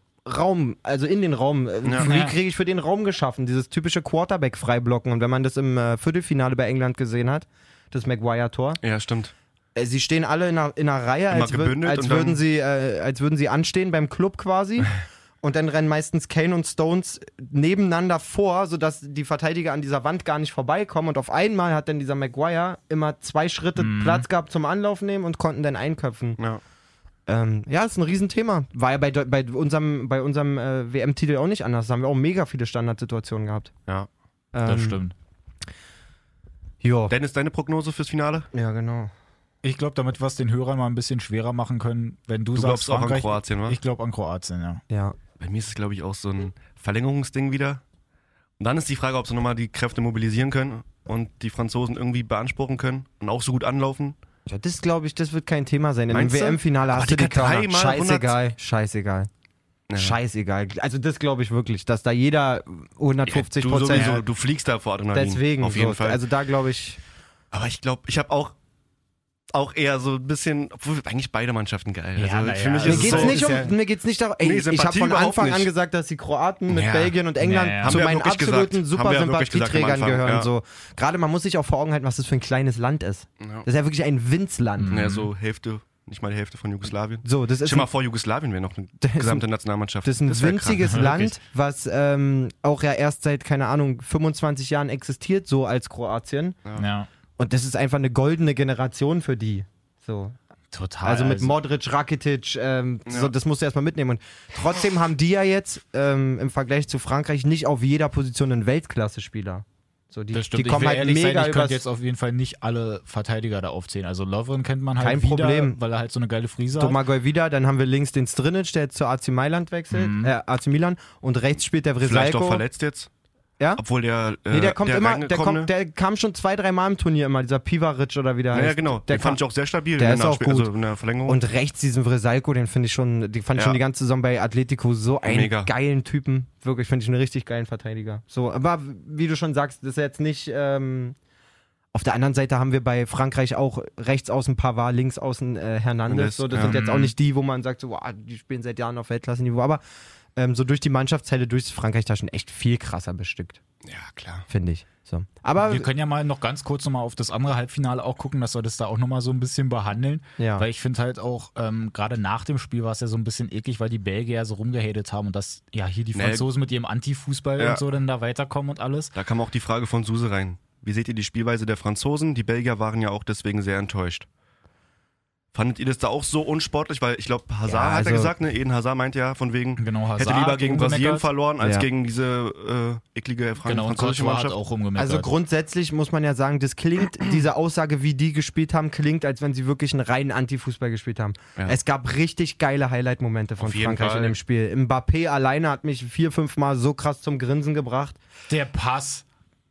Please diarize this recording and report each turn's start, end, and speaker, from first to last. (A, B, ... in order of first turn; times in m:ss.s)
0:00.2-0:08.8 A
0:02.0-0:02.4 B
0:08.8-0:09.3 C
0:09.8-0:26.4 A
0:11.3-0:12.4 C
0:23.8-0:24.3 B
0:27.3-0:33.7 A
0:34.5-0:35.0 A
0:34.6-0:35.1 B
0:36.8-0:37.1 A
0:37.1-0:38.5 C
0:38.5-0:39.1 A
0:39.6-0:44.8 B
0:42.5-0:43.8 C
0:44.9-0:45.2 A
0:45.4-0:47.8 C
0:48.6-0:54.2 C
0:54.5-0:59.3 A
0:56.1-0:58.4 C
0:59.9-1:00.2 C
1:00.0-1:04.2 A
1:03.2-1:06.2 C
1:03.9-1:04.2 B
1:05.1-1:07.0 A
1:07.5-1:08.5 C
1:09.5-1:13.7 C
1:12.2-1:13.7 B
1:12.8-1:25.1 A
1:14.4-1:15.7 C
1:16.7-1:17.2 C
1:17.4-1:18.0 B
1:17.8-1:20.5 C
1:23.4-1:23.6 C
1:24.8-1:25.3 B
1:24.9-1:30.9 C
1:27.2-1:27.9 A
1:29.0-1:29.4 A
1:30.0-1:36.6 A
1:30.9-1:31.4 B
1:36.8-1:37.1 B
1:37.4-1:40.4 A
1:40.7-1:41.6 B
1:41.0-1:51.8 A
1:43.1-1:43.3 C
1:50.3-1:57.0 B
1:55.0-1:55.8 A
1:56.8-2:02.6 A
1:59.9-2:00.3 B
2:02.0-2:03.1 C
2:03.8-2:05.7 C
2:04.5-2:09.4 A
2:08.5-2:11.4 C
2:10.0-2:10.7 A
2:11.2-2:21.2 A
2:15.2-2:15.7 C
2:21.9-2:29.8 A
2:26.1-2:26.8 C
2:26.5-2:27.1 B
2:30.4-2:33.6 A
2:33.8-2:34.5 C
2:34.5-2:35.9 A
2:35.6-2:49.1 B
2:40.4-2:40.6 A
2:46.1-2:46.4 C
2:47.6-2:47.8 C
2:49.1-2:54.2 C
2:55.5-3:04.6 C
2:57.7-2:58.3 A
2:59.8-3:01.3 B
3:01.6-3:01.8 A
3:03.6-3:05.3 B
3:05.0-3:18.2 A
3:13.6-3:14.4 C
3:18.5-3:19.2 B